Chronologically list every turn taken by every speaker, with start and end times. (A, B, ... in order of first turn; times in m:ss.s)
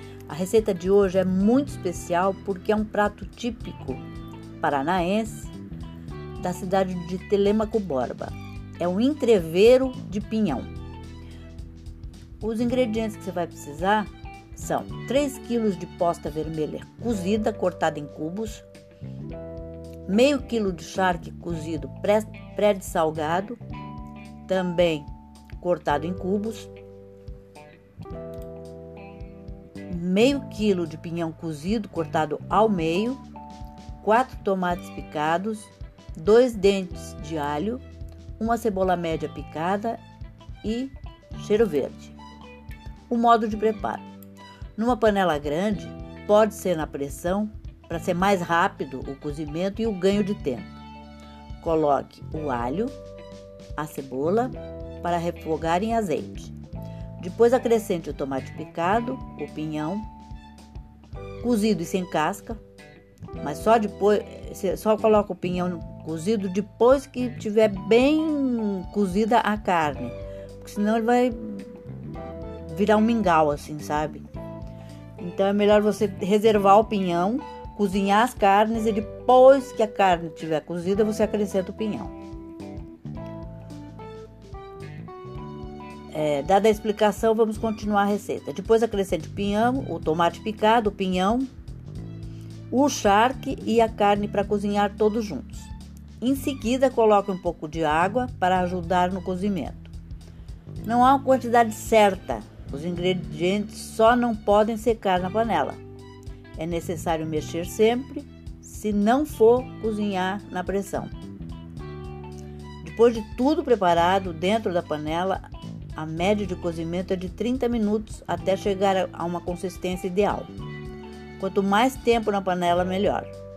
0:00.3-0:04.0 A
0:04.6-0:05.5 A
0:06.4-0:10.7 A
0:12.4-0:18.6 A
0:20.0-0:23.6 A
0:24.5-0:25.1 A
0:25.6-0:26.7 A
0:29.9-0:33.2 A
0:34.0-0:37.8 A
0:38.4-0:40.0 A
0:40.6-0:42.2 A
0:43.1-0:44.0 A
0:44.8-0:50.8 A
0:51.6-0:52.9 A
0:53.8-0:56.5 A
0:57.2-1:00.0 A
1:01.4-1:02.6 A
1:03.4-1:11.8 A
1:12.6-1:14.2 A
1:15.2-1:22.1 A
1:26.1-1:31.5 A
1:32.7-1:39.9 A
1:40.8-1:45.8 A
1:46.6-1:51.1 A
1:52.8-2:00.5 A
2:01.4-2:03.3 A